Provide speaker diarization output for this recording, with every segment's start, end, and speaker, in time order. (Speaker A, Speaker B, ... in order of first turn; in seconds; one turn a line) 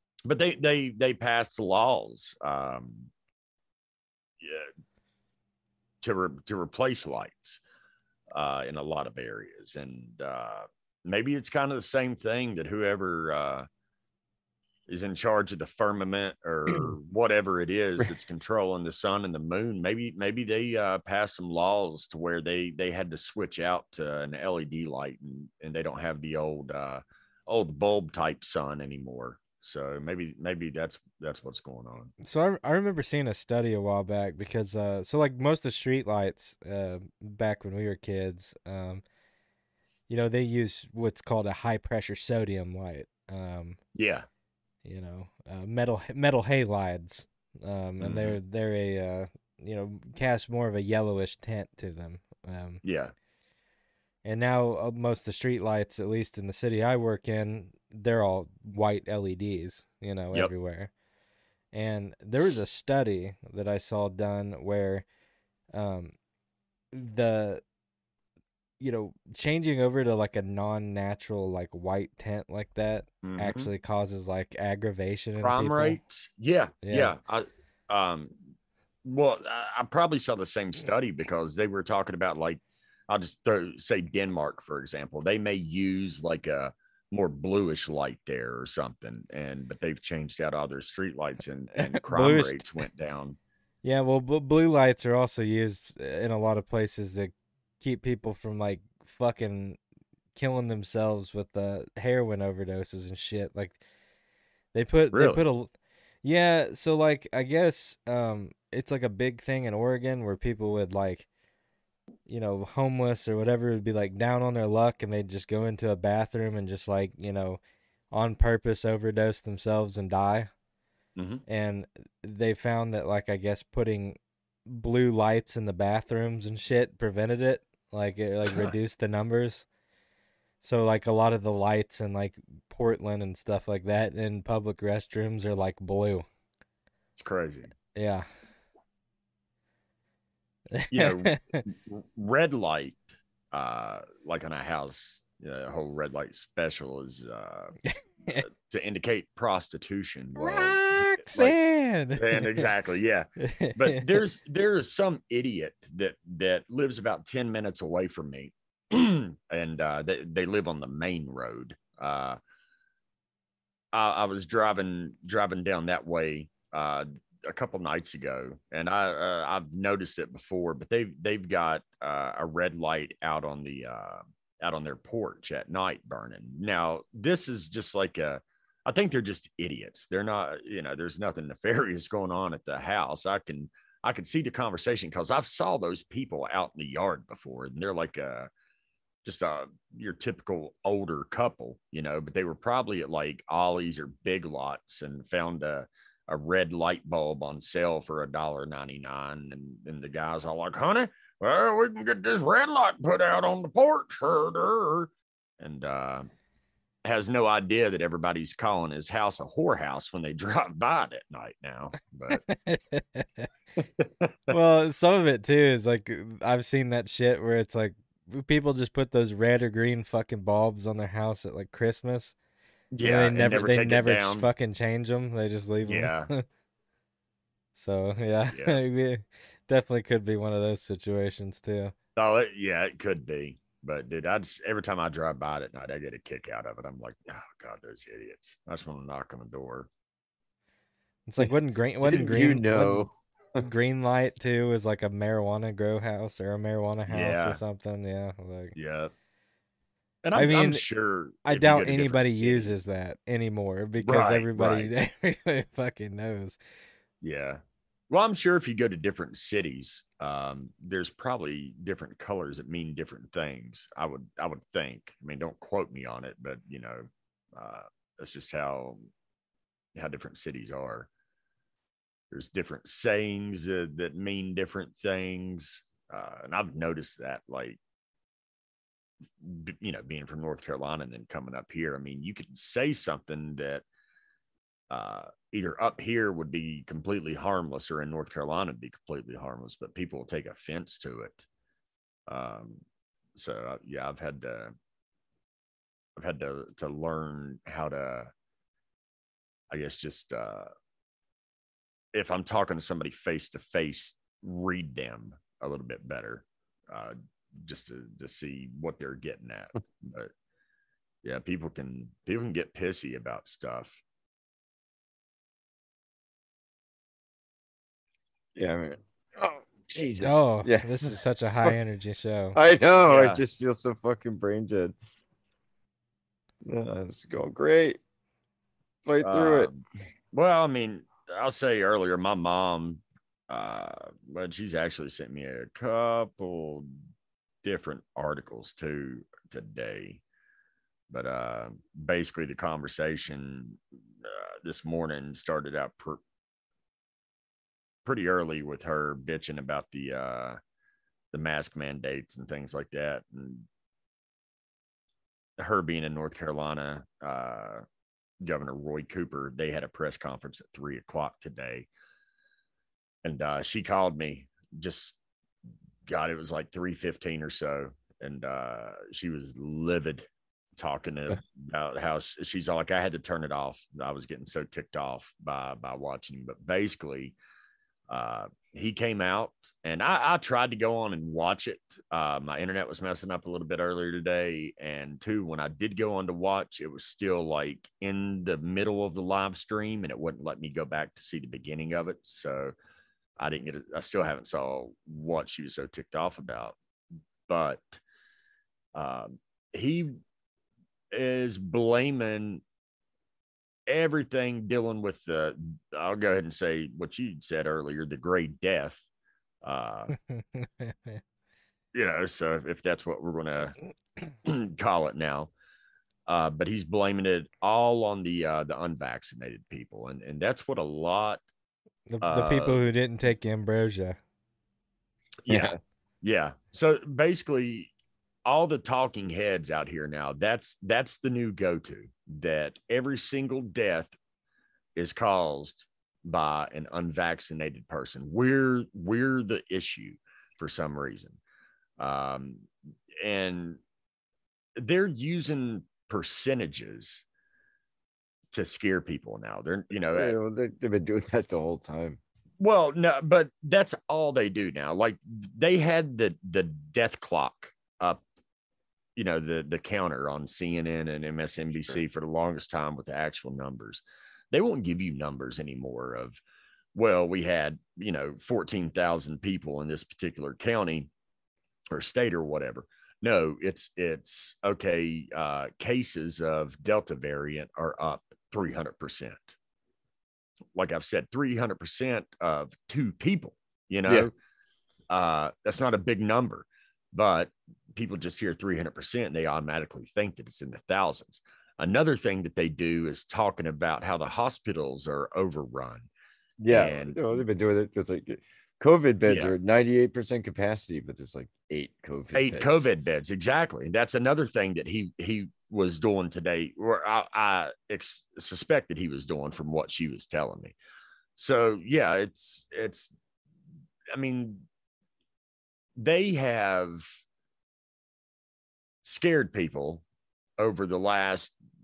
Speaker A: 0.2-3.1
Speaker A: 4.4-4.7
Speaker A: 6.0-7.6
Speaker A: 8.3-13.7
Speaker A: 14.9-32.1
Speaker B: 32.2-39.0
Speaker B: 40.1-43.8
Speaker A: 43.9-44.2
Speaker B: 44.8-52.8
Speaker A: 48.0-48.4
Speaker A: 52.8-53.1
Speaker B: 54.2-60.9
Speaker B: 61.7-65.0
Speaker B: 65.7-66.1
Speaker B: 66.9-67.6
Speaker B: 68.8-76.0
Speaker A: 73.2-73.7
Speaker A: 75.4-78.5
Speaker B: 76.8-77.2
Speaker A: 79.0-93.4
Speaker B: 91.8-92.7
Speaker B: 93.8-99.8
Speaker B: 100.3-103.8
Speaker B: 104.7-105.7
Speaker A: 105.1-105.4
Speaker B: 106.2-111.3
Speaker B: 112.3-117.6
Speaker B: 118.1-120.5
Speaker A: 121.2-121.4
Speaker B: 121.5-129.6
Speaker A: 128.5-128.7
Speaker B: 130.6-136.2
Speaker A: 137.2-137.7
Speaker B: 137.9-138.2
Speaker B: 140.7-141.6
Speaker A: 140.9-147.7
Speaker B: 147.9-148.4
Speaker A: 148.3-151.6
Speaker B: 150.4-152.7
Speaker A: 152.1-162.4
Speaker B: 153.5-154.2
Speaker A: 163.9-188.5
Speaker A: 189.2-206.3
Speaker A: 207.0-212.4
Speaker B: 212.3-213.5
Speaker A: 214.0-214.6
Speaker B: 214.5-222.3
Speaker A: 222.9-224.5
Speaker B: 223.0-226.4
Speaker A: 225.8-226.3
Speaker B: 227.7-231.9
Speaker A: 228.5-228.8
Speaker A: 232.2-239.9
Speaker B: 241.3-243.1
Speaker C: 241.4-243.7
Speaker B: 243.6-248.7
Speaker A: 247.1-247.6
Speaker A: 248.7-249.1
Speaker A: 250.2-252.8
Speaker B: 250.3-250.8
Speaker B: 251.4-256.6
Speaker A: 254.0-254.9
Speaker A: 257.2-269.0
Speaker A: 269.9-271.1
Speaker A: 272.3-277.8
Speaker A: 279.4-283.8
Speaker A: 284.9-291.4
Speaker A: 292.3-292.8
Speaker A: 293.3-294.7
Speaker A: 296.1-298.3
Speaker A: 299.7-300.7
Speaker A: 302.1-310.3
Speaker A: 311.2-314.0
Speaker C: 318.6-320.9
Speaker A: 319.9-320.4
Speaker B: 320.2-322.6
Speaker C: 322.5-324.9
Speaker A: 323.1-323.4
Speaker C: 326.6-328.0
Speaker C: 329.1-329.7
Speaker A: 329.2-329.8
Speaker A: 330.3-336.9
Speaker A: 337.6-340.2
Speaker A: 341.1-346.2
Speaker A: 348.0-350.6
Speaker A: 351.3-353.7
Speaker A: 355.6-357.8
Speaker A: 358.4-361.9
Speaker A: 363.2-365.2
Speaker A: 366.1-370.2
Speaker A: 370.8-377.4
Speaker A: 378.1-392.7
Speaker A: 393.4-396.8
Speaker A: 397.5-398.0
Speaker A: 398.9-400.1
Speaker A: 401.1-402.6
Speaker A: 403.9-409.0
Speaker A: 409.6-410.1
Speaker B: 410.3-411.2
Speaker A: 411.9-413.8
Speaker A: 414.4-415.5
Speaker A: 416.3-421.4
Speaker B: 422.1-424.2
Speaker A: 422.2-422.8
Speaker A: 425.4-427.9
Speaker C: 425.5-425.7
Speaker A: 428.4-434.1
Speaker A: 434.9-441.4
Speaker A: 442.0-442.7
Speaker A: 443.2-443.8
Speaker A: 444.8-447.2
Speaker A: 448.5-450.3
Speaker C: 450.1-452.2
Speaker A: 452.6-458.2
Speaker A: 459.1-464.0
Speaker A: 464.5-466.4
Speaker A: 466.9-471.1
Speaker A: 471.9-479.5
Speaker A: 480.7-484.3
Speaker A: 485.1-496.1
Speaker C: 496.6-502.9
Speaker A: 496.7-497.4
Speaker A: 499.3-499.5
Speaker A: 502.3-510.7
Speaker A: 511.4-513.1
Speaker A: 514.1-514.6
Speaker A: 516.0-517.0
Speaker A: 519.0-520.0
Speaker A: 520.6-521.5